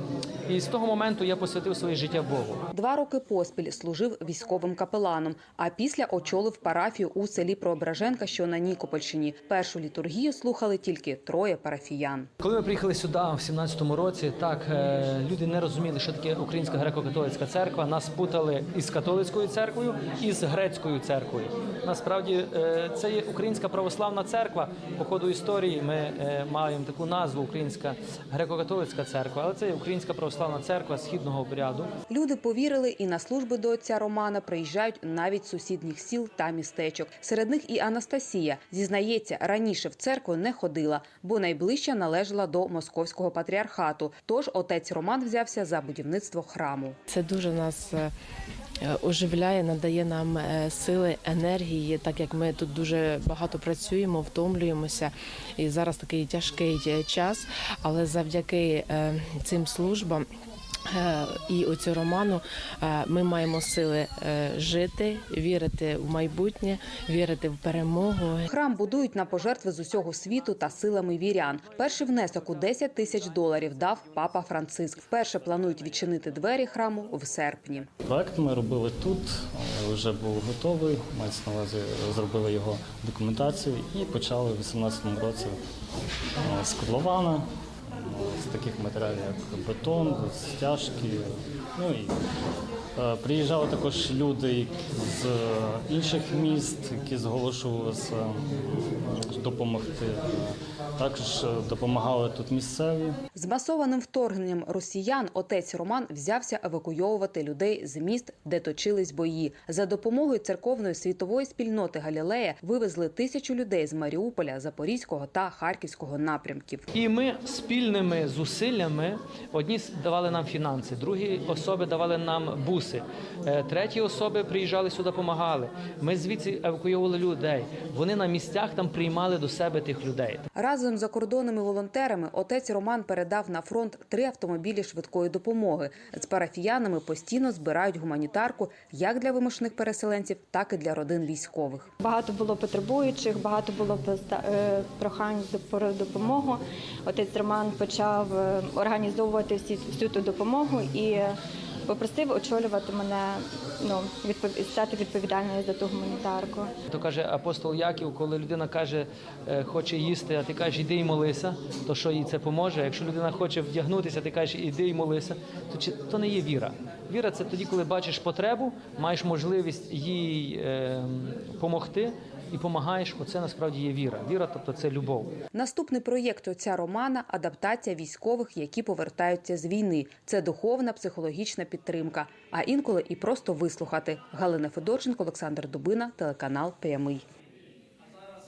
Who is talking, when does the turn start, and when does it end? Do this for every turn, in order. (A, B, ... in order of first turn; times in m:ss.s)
0:00.5-0:02.6 A
0:02.7-0:12.3 B
0:12.4-0:31.9 A
0:32.1-0:47.0 B
0:47.1-0:48.1 C
0:48.8-1:00.3 C
1:00.9-1:08.4 C
1:08.5-1:17.9 B
1:18.0-1:25.6 D
1:26.4-1:32.2 D
1:33.0-1:43.2 D
1:43.3-1:56.8 B
1:56.9-2:10.4 A
2:10.5-2:21.9 B
2:22.0-2:36.7 E
2:36.9-2:55.3 A
2:55.5-3:07.2 B